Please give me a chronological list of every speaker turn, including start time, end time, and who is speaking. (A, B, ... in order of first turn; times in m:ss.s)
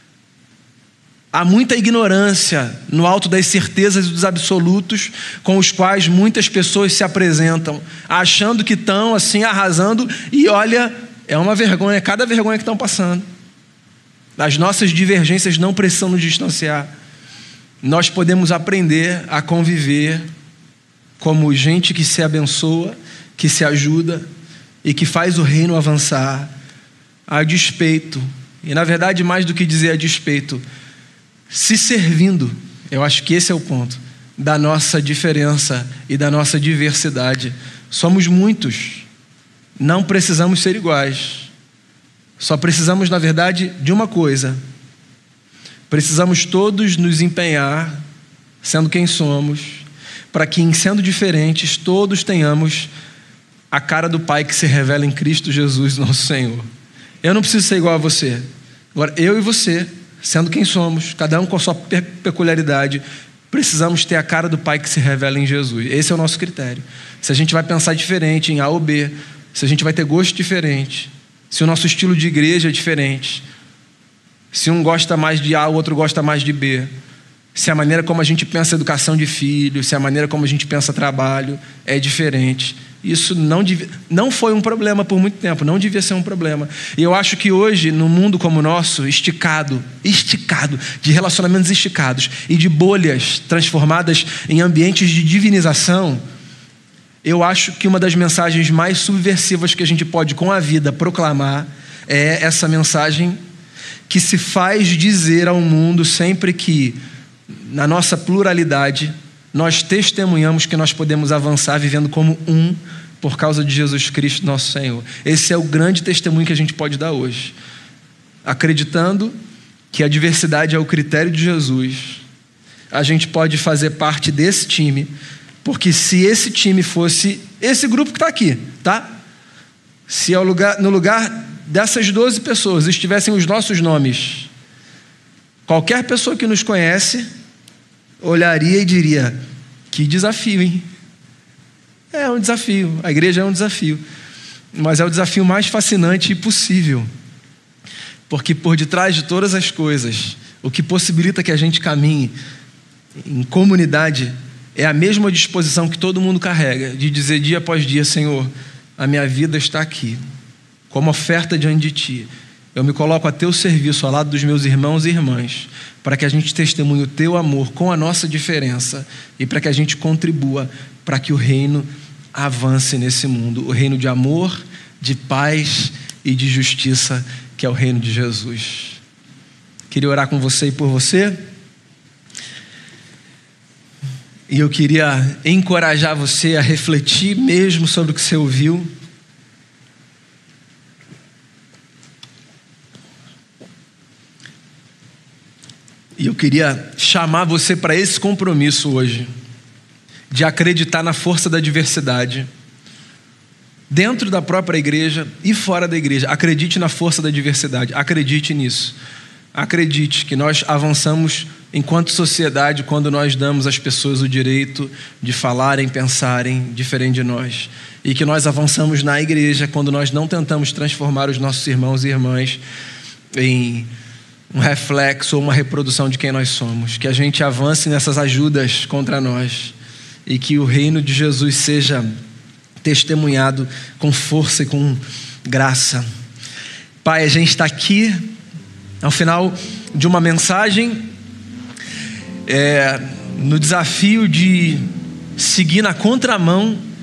0:01.3-0:13.3 A
0:14.4-0:16.9 A
0:17.8-0:20.2 A
0:21.2-0:24.3 A
0:24.8-0:26.5 A
0:27.3-0:30.6 A
0:31.5-0:39.1 A
0:39.8-0:41.5 A
0:42.4-0:44.6 A
0:45.9-0:48.0 A
0:48.6-0:52.9 A
0:53.7-0:56.6 A
0:57.2-1:13.4 A
1:14.5-1:16.9 A
1:17.6-1:36.2 A
1:37.2-1:43.4 A
1:44.1-1:47.0 A
1:47.7-1:57.5 A
1:58.4-1:59.3 A
1:59.9-2:02.2 A
2:02.9-2:05.1 A
2:05.6-2:09.1 A
2:10.1-2:14.5 A
2:15.7-2:17.3 A
2:18.2-2:19.4 A
2:19.9-2:20.8 A
2:22.1-2:24.0 A
2:24.7-2:27.1 A
2:28.3-2:32.3 A
2:33.2-2:40.2 A
2:40.9-2:59.0 A
2:59.9-3:01.4 A
3:04.5-3:08.9 A
3:16.2-3:19.3 A
3:20.3-3:22.5 A
3:23.9-3:29.0 A
3:29.5-3:42.6 A
3:43.4-3:43.9 A
3:44.5-3:49.8 A
3:50.3-3:52.1 A
3:52.8-3:56.0 A
3:57.0-3:58.2 A
3:59.0-4:01.1 A
4:02.5-4:04.8 A
4:05.4-4:06.8 A